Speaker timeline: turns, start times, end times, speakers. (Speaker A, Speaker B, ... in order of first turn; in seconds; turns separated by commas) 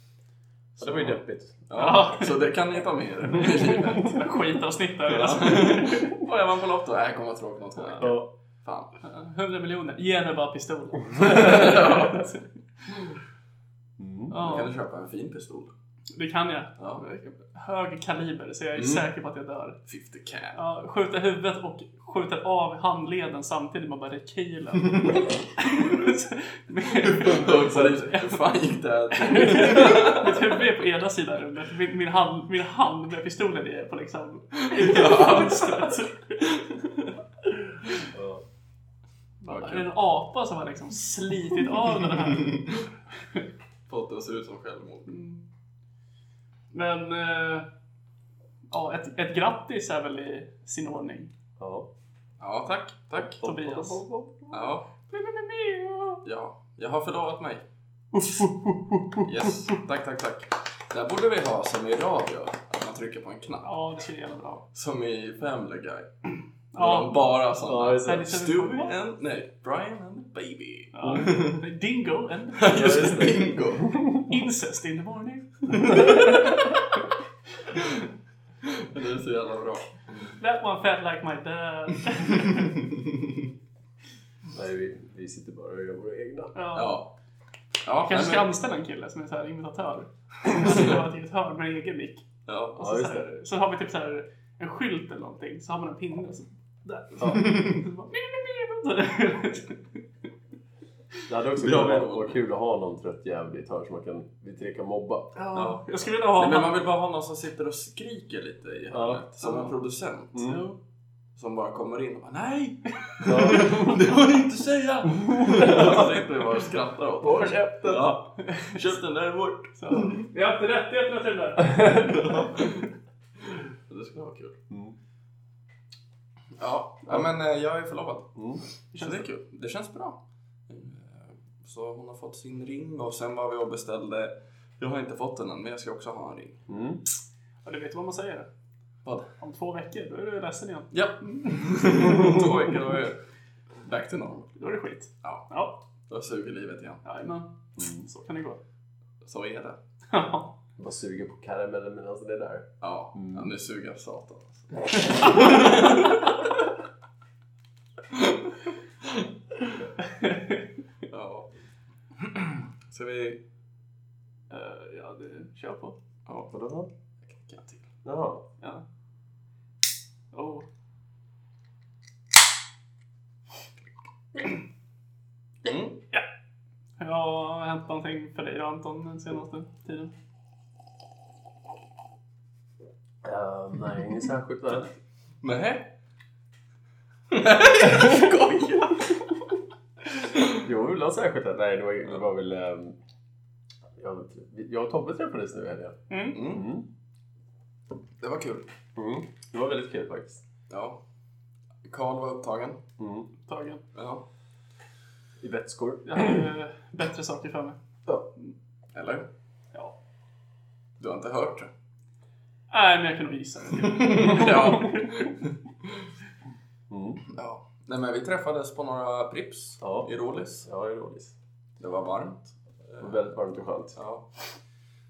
Speaker A: 0.8-4.2, Speaker B: 0.8-1.6, Speaker C: 1.7-2.5, Speaker C: 3.4-6.1, Speaker A: 5.1-8.9, Speaker C: 7.8-8.2, Speaker B: 8.0-8.3, Speaker C: 9.0-12.4, Speaker B: 11.2-11.4, Speaker A: 11.2-12.3, Speaker B: 14.0-14.3, Speaker C: 14.3-14.7, Speaker A: 14.3-15.7, Speaker C: 16.1-19.8, Speaker A: 16.8-17.1, Speaker A: 18.8-19.0, Speaker A: 19.9-20.6, Speaker C: 20.5-28.4, Speaker A: 24.8-25.3, Speaker A: 27.0-30.6, Speaker B: 27.2-28.1, Speaker C: 29.1-36.6, Speaker A: 34.5-36.0, Speaker B: 38.1-38.4, Speaker C: 39.4-42.7, Speaker A: 39.5-39.9, Speaker A: 42.0-42.8, Speaker A: 43.9-45.1, Speaker C: 45.1-45.5, Speaker C: 46.7-47.7, Speaker C: 48.7-51.3, Speaker B: 51.6-51.9, Speaker A: 52.4-53.4, Speaker B: 53.2-54.7, Speaker C: 53.4-54.0, Speaker A: 54.5-54.9, Speaker C: 55.1-56.2, Speaker A: 56.2-57.6, Speaker B: 58.1-59.5, Speaker A: 59.2-63.7, Speaker C: 63.6-64.6, Speaker A: 64.7-71.6, Speaker C: 66.7-67.2, Speaker B: 67.6-68.3, Speaker C: 68.0-68.9, Speaker C: 70.9-73.0, Speaker B: 71.0-71.3, Speaker A: 72.6-73.9, Speaker B: 72.7-74.4, Speaker C: 74.3-76.7, Speaker B: 75.8-76.4, Speaker A: 78.6-80.0, Speaker C: 80.4-82.8, Speaker A: 82.8-83.5, Speaker B: 84.5-86.5, Speaker C: 86.5-87.0, Speaker A: 86.7-87.1, Speaker A: 87.8-88.5, Speaker C: 88.0-100.0, Speaker A: 90.5-91.0, Speaker A: 92.5-92.8, Speaker B: 92.8-93.3, Speaker B: 101.3-105.3, Speaker A: 101.5-102.4, Speaker C: 105.3-106.8, Speaker A: 105.5-110.5, Speaker B: 108.9-109.2, Speaker C: 109.4-109.7, Speaker B: 110.3-110.6, Speaker C: 110.4-110.8, Speaker A: 111.3-120.3, Speaker B: 113.2-113.9, Speaker C: 113.4-113.8, Speaker B: 115.1-116.3, Speaker B: 117.2-118.2, Speaker C: 118.4-119.0, Speaker C: 119.8-122.5, Speaker A: 122.1-122.9, Speaker A: 123.9-124.6, Speaker B: 124.7-125.0, Speaker A: 126.5-128.3, Speaker B: 128.3-128.6, Speaker A: 128.9-136.6, Speaker C: 128.9-129.3, Speaker B: 136.7-137.0, Speaker C: 137.6-138.5, Speaker A: 139.0-139.3, Speaker C: 139.4-142.4, Speaker A: 140.9-143.2, Speaker A: 143.8-144.5, Speaker C: 144.6-145.8, Speaker A: 146.1-147.0, Speaker C: 147.0-148.6, Speaker B: 147.8-148.0, Speaker A: 149.2-149.8, Speaker C: 150.1-150.5, Speaker B: 150.8-153.5, Speaker A: 152.8-156.4, Speaker A: 158.1-158.5, Speaker C: 160.2-160.6, Speaker A: 161.1-161.5, Speaker A: 162.2-163.4, Speaker C: 164.5-166.0, Speaker A: 166.2-166.5, Speaker B: 166.5-166.9, Speaker A: 167.2-167.9, Speaker B: 168.0-168.4, Speaker C: 170.3-170.6, Speaker A: 175.6-176.0, Speaker C: 177.0-180.1, Speaker B: 183.2-184.9, Speaker A: 185.4-185.9, Speaker A: 187.3-189.2, Speaker B: 190.5-192.9, Speaker B: 194.0-196.8, Speaker C: 196.1-196.4, Speaker A: 196.3-196.7, Speaker A: 198.2-198.7, Speaker B: 198.9-200.4, Speaker A: 200.7-201.0, Speaker A: 201.8-202.8, Speaker B: 203.0-203.3, Speaker C: 203.5-203.8, Speaker A: 203.9-204.2, Speaker B: 205.4-206.5, Speaker C: 206.0-207.8, Speaker A: 208.9-209.3, Speaker A: 211.0-211.7, Speaker C: 212.7-215.3, Speaker A: 213.8-216.0, Speaker B: 216.9-217.2, Speaker A: 217.3-220.7, Speaker B: 219.8-221.3, Speaker A: 221.8-224.3, Speaker B: 223.0-224.0